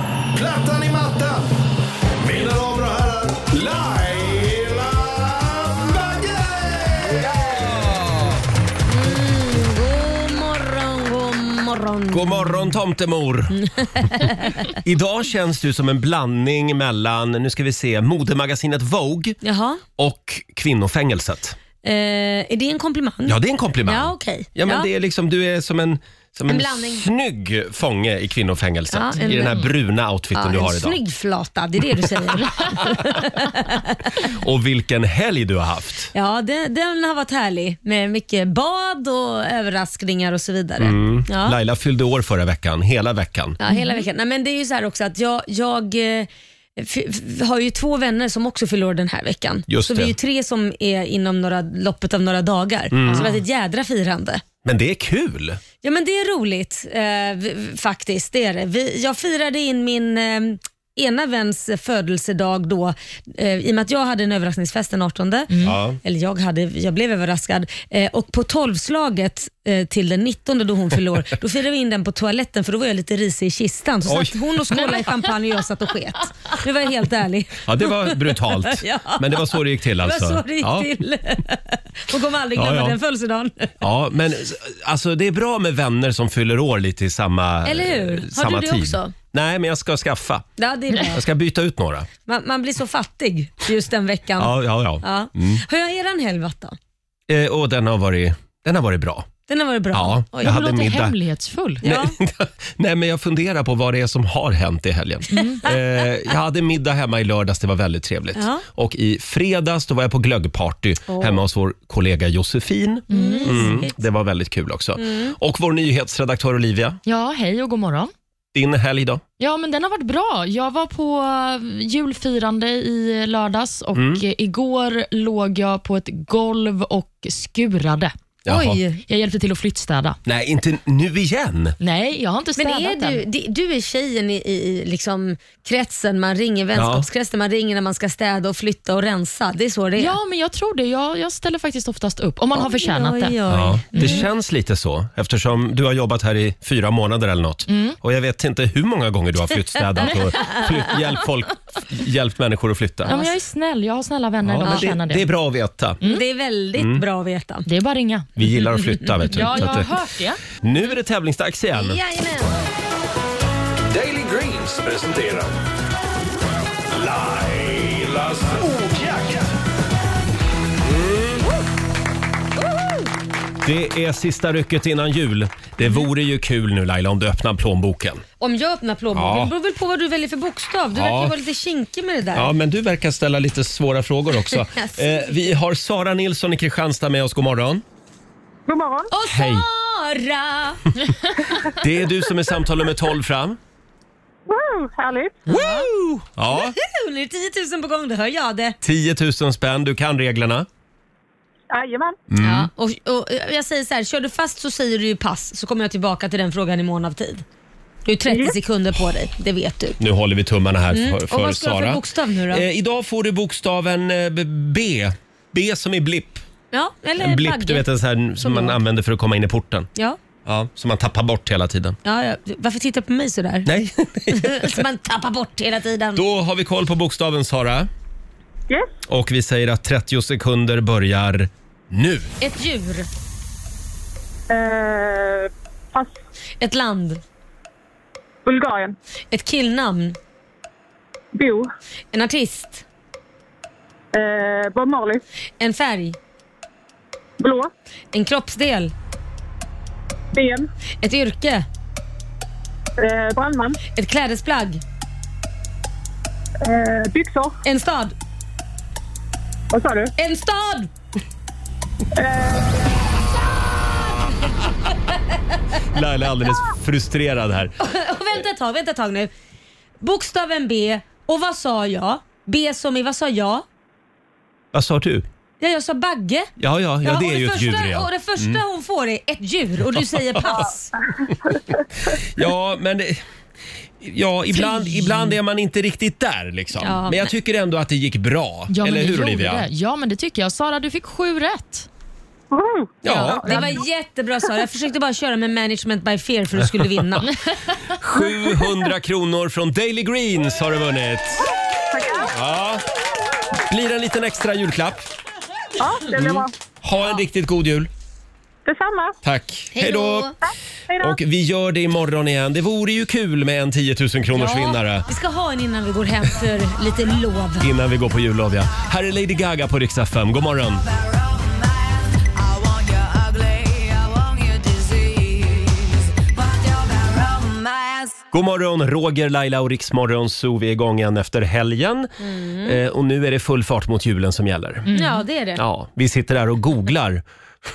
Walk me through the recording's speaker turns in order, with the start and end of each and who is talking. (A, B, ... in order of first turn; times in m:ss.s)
0:00.3-0:01.5 A
0:02.2-0:08.1 A
0:07.8-0:08.2 B
0:08.9-0:12.7 C
0:12.1-0:13.7 B
0:13.6-0:14.8 C
0:14.8-0:19.4 B
0:19.4-0:19.8 C
0:20.0-0:21.6 B
0:21.8-0:24.9 C
0:23.2-0:31.0 B
0:26.5-0:27.1 C
0:28.9-0:29.6 C
0:30.3-0:34.3 C
0:34.2-0:36.1 B
0:36.1-0:41.6 C
0:40.8-0:43.6 B
0:43.6-0:54.4 C
0:43.7-0:44.0 D
0:49.7-0:50.1 B
0:52.9-0:53.3 B
0:54.6-0:55.6 B
0:55.8-1:05.5 C
1:05.5-1:05.8 D
1:05.6-1:06.0 B
1:06.0-1:23.7 C
1:14.0-1:14.4 B
1:17.6-1:20.9 B
1:22.5-1:23.0 B
1:23.8-1:30.4 B
1:27.6-1:29.1 C
1:30.6-1:31.2 C
1:31.1-1:32.1 B
1:32.3-1:36.8 C
1:34.4-1:35.6 B
1:37.3-1:39.3 B
1:39.5-1:40.6 C
1:39.9-1:41.2 B
1:40.4-1:41.8 D
1:41.8-1:57.0 B
1:41.8-1:42.1 C
1:45.3-1:45.6 D
1:45.4-1:45.9 C
1:48.3-1:48.6 C
1:51.1-1:51.4 C
1:53.1-1:53.8 D
1:53.1-1:53.9 C
1:55.0-1:55.3 C
1:57.1-1:58.1 D
1:58.5-1:59.2 B
1:59.4-2:08.1 D
2:03.9-2:04.2 B
2:08.5-2:08.8 B
2:08.5-2:09.0 C
2:09.1-2:10.2 D
2:10.2-2:11.8 B
2:11.8-2:13.2 D
2:12.6-2:20.2 C
2:16.8-2:17.1 B
2:20.0-2:23.4 D
2:22.6-2:24.2 C
2:23.5-2:33.1 B
2:23.9-2:24.2 D
2:27.7-2:28.0 D
2:30.0-2:30.7 C
2:33.1-2:33.3 C
2:33.1-2:35.2 D
2:34.4-2:36.0 B
2:34.6-2:34.9 C
2:36.0-2:37.7 C
2:36.8-2:37.0 B
2:37.7-2:38.3 D
2:38.4-2:39.9 B
2:38.6-2:39.2 C
2:39.3-2:40.4 D
2:40.6-2:42.0 B
2:41.7-2:42.6 C
2:44.9-2:45.4 B
2:48.6-2:49.4 A
2:50.9-2:51.4 B
2:53.6-2:58.2 B
2:58.4-3:02.5 C
2:59.1-2:59.5 B
3:00.9-3:01.3 B
3:02.3-3:07.8 B
3:04.5-3:05.4 C
3:08.7-3:09.1 E
3:09.1-3:10.9 C
3:09.3-3:09.7 B
3:11.8-3:13.6 B
3:14.5-3:15.4 E
3:15.5-3:15.9 C
3:15.5-3:16.8 B
3:16.5-3:18.8 C
3:18.8-3:20.7 B
3:21.7-3:22.2 E
3:22.3-3:22.7 B
3:22.4-3:27.4 C
3:28.1-3:30.0 C
3:28.3-3:28.6 E
3:30.0-3:36.4 B
3:30.9-3:32.7 C
3:36.7-3:37.8 C
3:37.2-3:39.9 B
3:38.4-3:38.8 C
3:40.5-3:42.0 B
3:42.0-3:43.7 C
3:43.7-3:44.8 B
3:44.3-3:46.2 C
3:46.2-3:47.9 B
3:49.1-3:52.3 B
3:52.4-3:53.1 C
3:54.5-3:56.2 E
3:56.6-3:57.2 C
3:58.4-3:59.0 E
3:59.3-4:00.2 C
4:01.3-4:01.7 E
4:02.1-4:02.8 C
4:04.1-4:05.2 E
4:05.6-4:06.2 C
4:07.4-4:07.7 E
4:08.1-4:08.9 C
4:10.3-4:10.7 E
4:11.0-4:11.7 C
4:13.0-4:13.8 E
4:14.0-4:14.8 C
4:16.6-4:17.6 E
4:17.6-4:18.1 C
4:19.7-4:20.1 E
4:20.2-4:20.9 C
4:22.2-4:23.1 E
4:25.9-4:27.7 B
4:27.8-4:29.3 C
4:30.0-4:33.6 C
4:34.7-4:35.2 B
4:35.6-4:36.5 C
4:36.6-4:38.6 B
4:37.0-4:40.9 C
4:39.9-4:40.5 B
4:42.1-4:43.2 B
4:44.0-4:49.7 B
4:44.6-4:45.2 D
4:46.8-4:47.3 C
4:48.7-4:51.9 D
4:52.5-4:53.6 E
4:53.0-4:53.5 B
4:53.3-4:57.4 C
4:53.5-4:53.8 D
4:58.0-5:01.5 B
5:01.9-5:02.3 E
5:02.3-5:02.8 B
5:03.7-5:05.0 B
5:05.8-5:06.5 E
5:06.2-5:07.9 B
5:08.6-5:09.1 E
5:09.2-5:10.3 B
5:09.7-5:10.4 C
5:10.9-5:11.2 E
5:11.0-5:15.0 B
5:14.4-5:17.7 C
5:17.6-5:20.8 B
5:23.0-5:25.6 C
5:26.6-5:28.1 C
5:28.3-5:32.1 B
5:32.2-5:32.8 C
5:32.6-5:34.9 B
5:34.9-5:35.2 D
5:34.9-5:35.6 C
5:35.6-5:37.2 B